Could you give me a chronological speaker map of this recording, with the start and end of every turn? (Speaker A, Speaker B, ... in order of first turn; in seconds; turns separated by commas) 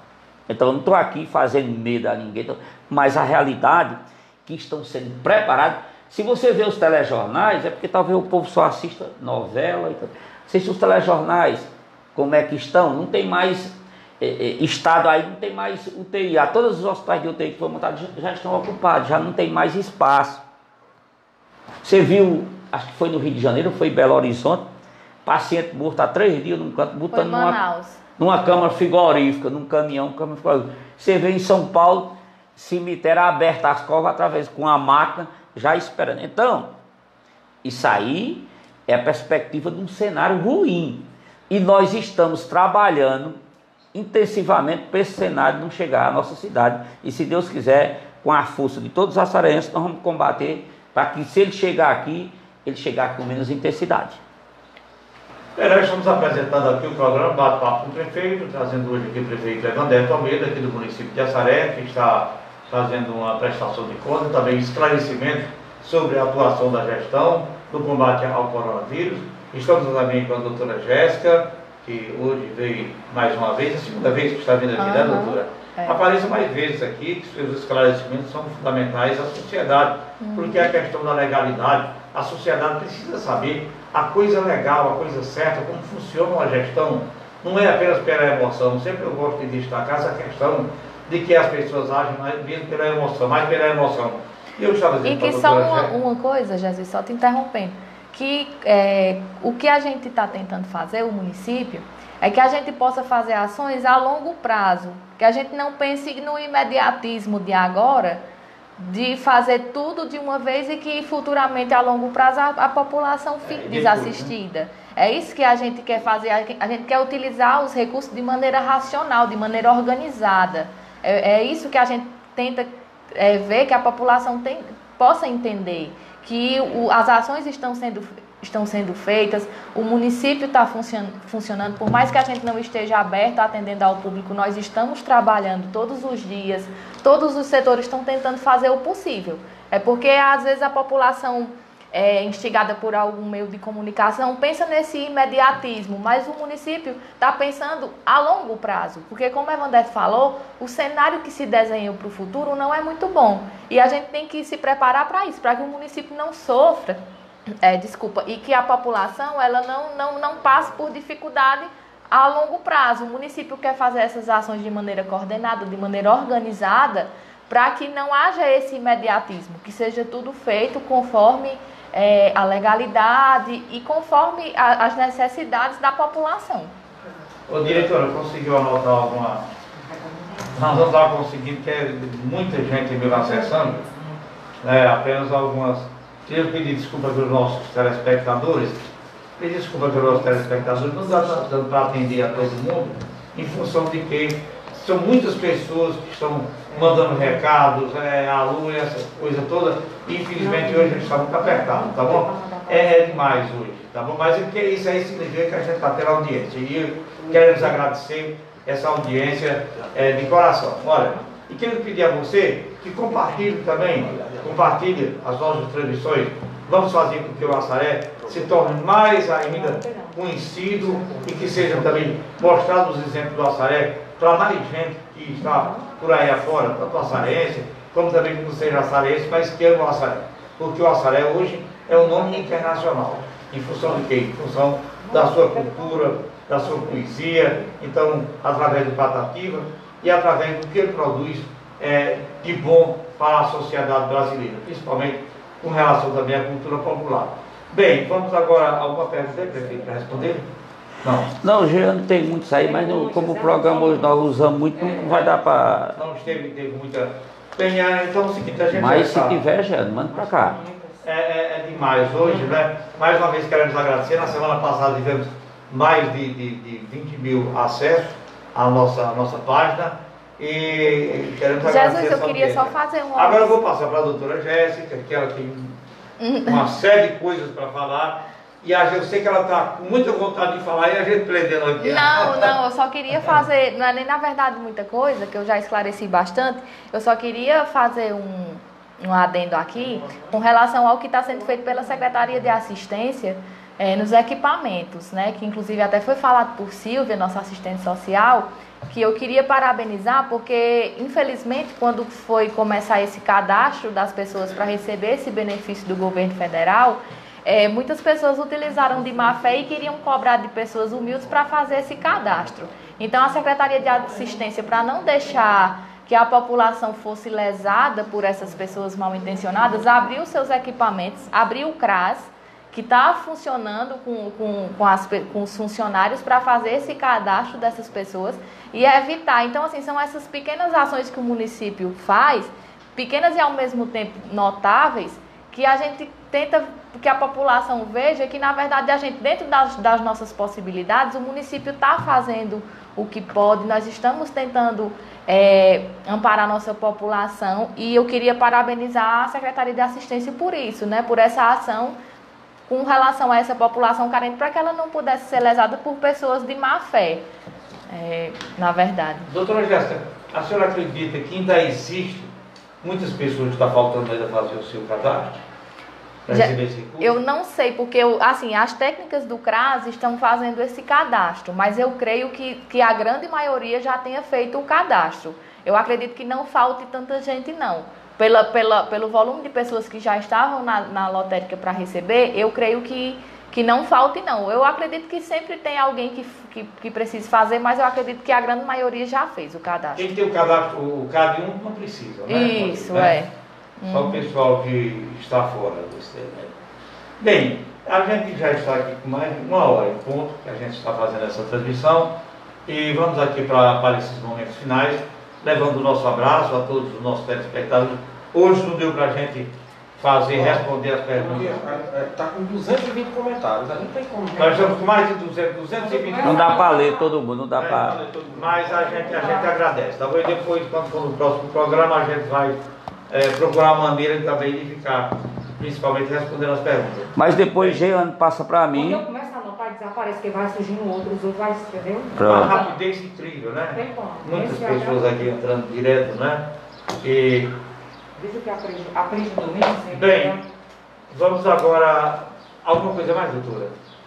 Speaker A: 0.5-20.4, Speaker A: 21.8-24.6, Speaker A: 25.2-27.6, Speaker B: 27.1-28.0, Speaker A: 28.2-36.7, Speaker A: 37.6-43.4, Speaker A: 43.9-54.2, Speaker C: 55.6-95.9, Speaker B: 74.8-76.0, Speaker B: 80.2-80.7, Speaker B: 95.0-108.2, Speaker B: 108.8-157.0, Speaker C: 113.4-114.3, Speaker B: 157.6-176.7, Speaker C: 177.5-179.5, Speaker D: 179.7-180.9, Speaker C: 180.5-183.8, Speaker D: 183.0-184.2, Speaker C: 184.6-250.5, Speaker D: 196.7-197.2, Speaker D: 200.3-203.4, Speaker E: 213.6-214.7, Speaker E: 218.2-218.6, Speaker D: 219.4-221.5, Speaker E: 221.5-221.9, Speaker D: 225.4-226.9, Speaker D: 231.9-233.0, Speaker D: 235.0-237.7, Speaker C: 251.0-251.3, Speaker A: 251.3-256.0, Speaker D: 252.6-254.2, Speaker D: 254.8-255.4, Speaker C: 255.9-259.5, Speaker A: 258.7-260.6, Speaker D: 259.9-261.1, Speaker C: 261.0-275.8, Speaker D: 261.9-262.6, Speaker B: 271.6-273.6, Speaker B: 276.2-276.7, Speaker C: 276.4-282.5, Speaker B: 281.8-351.9, Speaker D: 291.6-291.9, Speaker B: 352.7-357.2, Speaker B: 357.9-359.3, Speaker C: 359.2-365.4, Speaker C: 366.2-367.2, Speaker B: 366.3-390.1, Speaker C: 389.9-393.2, Speaker B: 392.3-394.2, Speaker C: 393.9-396.5, Speaker C: 397.2-402.1, Speaker C: 402.6-411.7, Speaker E: 410.3-410.6, Speaker E: 411.1-414.8, Speaker C: 414.4-416.7, Speaker D: 415.8-417.1, Speaker A: 416.2-418.0, Speaker C: 417.6-427.8, Speaker E: 417.9-419.3, Speaker D: 419.0-419.5, Speaker A: 427.1-429.0, Speaker D: 428.7-432.7, Speaker A: 432.1-432.6, Speaker C: 432.2-436.5, Speaker D: 433.7-435.2, Speaker C: 437.0-437.6, Speaker D: 438.1-440.4, Speaker C: 439.9-440.4, Speaker C: 441.1-443.8